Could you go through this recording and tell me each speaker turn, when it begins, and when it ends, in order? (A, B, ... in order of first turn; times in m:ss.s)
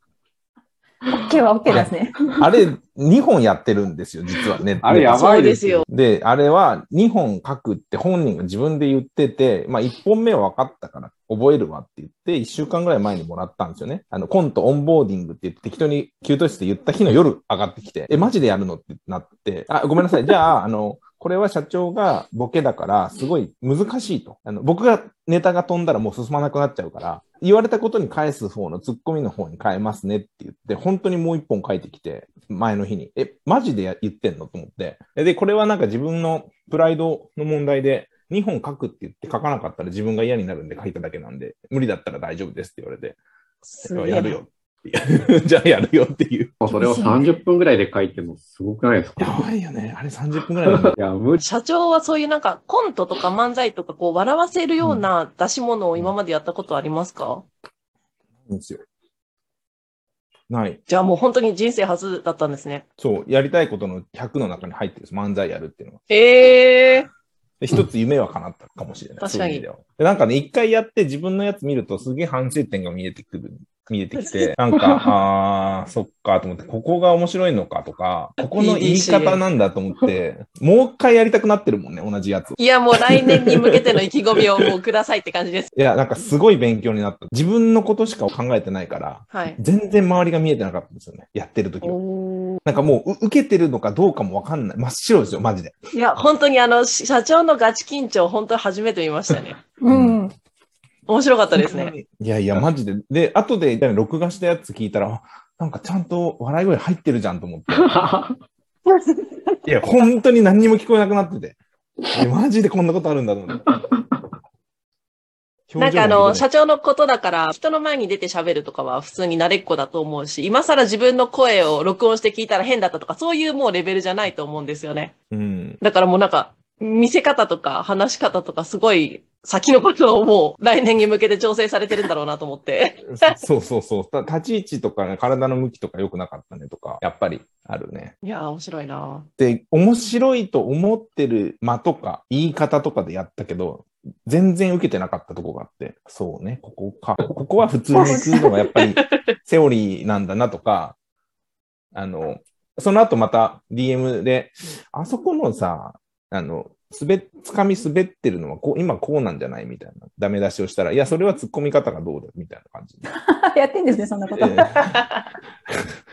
0:01.1-0:02.4 A
0:01.7-0:05.3 B
0:04.8-0:05.8 C
0:05.1-0:05.8 D
0:05.9-0:43.2 B
0:43.7-0:44.4 D
0:43.8-0:46.5 B
0:46.6-0:49.4 C
0:46.6-0:47.3 A
0:49.2-0:50.9 B
0:50.7-0:51.4 C
0:51.4-0:57.4 D
0:58.4-0:58.8 B
1:00.5-1:00.8 B
1:00.9-1:02.8 D
1:03.0-1:06.0 B
1:06.1-1:07.1 D
1:07.6-1:23.8 B
1:09.2-1:09.6 D
1:14.2-1:14.5 D
1:18.4-1:19.4 D
1:22.6-1:25.7 D
1:25.7-1:32.0 B
1:29.3-1:29.6 D
1:31.8-1:32.6 D
1:32.6-1:35.8 B
1:35.9-1:39.6 D
1:39.8-1:40.3 A
1:39.9-1:40.2 B
1:41.1-1:41.9 D
1:41.5-1:47.9 B
1:47.7-1:48.4 C
1:48.9-1:49.3 D
1:49.6-1:51.6 B
1:52.1-1:53.7 B
1:55.7-1:56.4 B
1:55.8-2:05.1 D
2:05.3-2:05.8 B
2:05.8-2:13.4 D
2:13.1-2:18.1 B
2:18.2-2:19.3 D
2:19.4-2:31.0 B
2:27.9-2:28.5 A
2:31.9-2:43.0 B
2:43.2-2:44.9 A
2:44.4-2:45.0 B